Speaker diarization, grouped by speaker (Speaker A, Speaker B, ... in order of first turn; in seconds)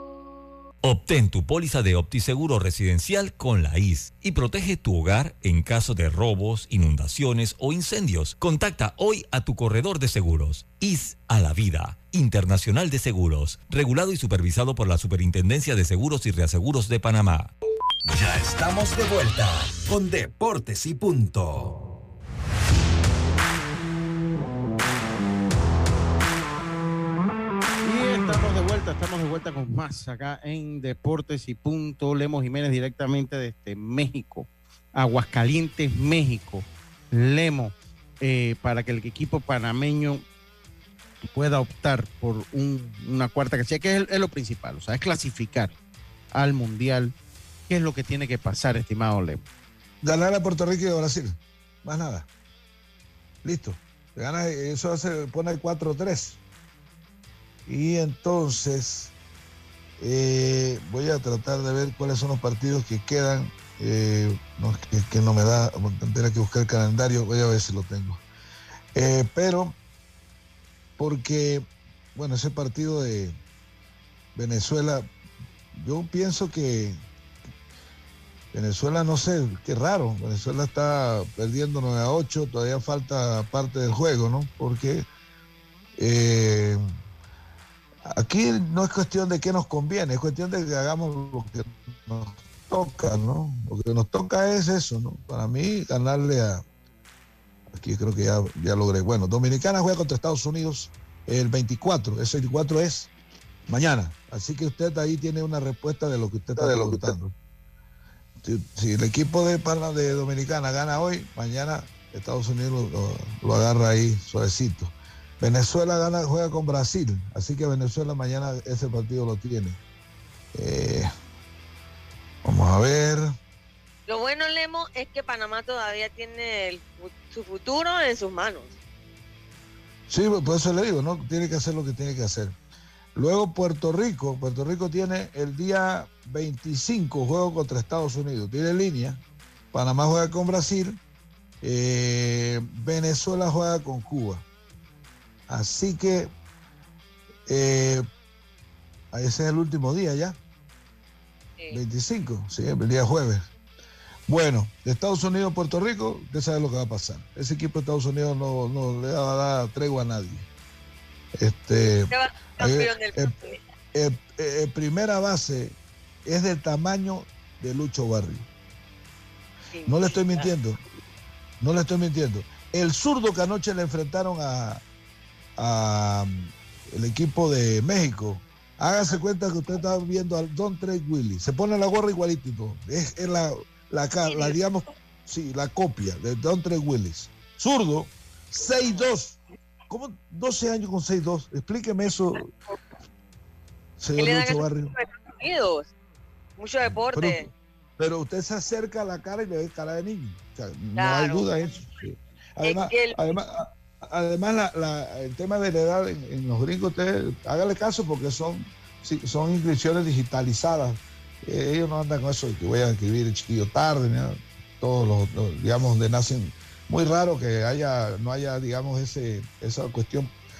Speaker A: 0.8-17.5
Speaker B: 18.1-21.9
Speaker C: 27.8-40.2, 41.3-45.8, 46.3-47.1, 47.7-49.4
Speaker D: 50.0-52.3, 53.4-56.4, 57.7-59.1, 60.0-68.2, 68.9-69.8, 71.0-73.3, 74.3-75.1, 75.7-77.0, 78.5-85.1, 86.0-86.8, 88.1-96.6, 97.7-103.1, 103.7-107.3, 108.4-119.8, 120.5-121.1, 122.4-123.3, 130.1-132.5, 133.1-139.2, 139.7-141.0, 141.6-144.4, 145.5-146.3, 147.5-148.0, 149.1-150.4, 151.7-153.4, 154.3-160.4, 161.3-163.3, 163.9-168.5, 169.8-170.8, 171.6-174.8, 175.6-192.5, 194.0-195.0, 196.8-220.3
Speaker E: 124.1-128.7, 162.1-163.6, 169.7-170.4, 184.3-184.6, 188.7-189.1, 194.2-195.9, 196.6-197.4, 200.9-201.6, 202.6-203.2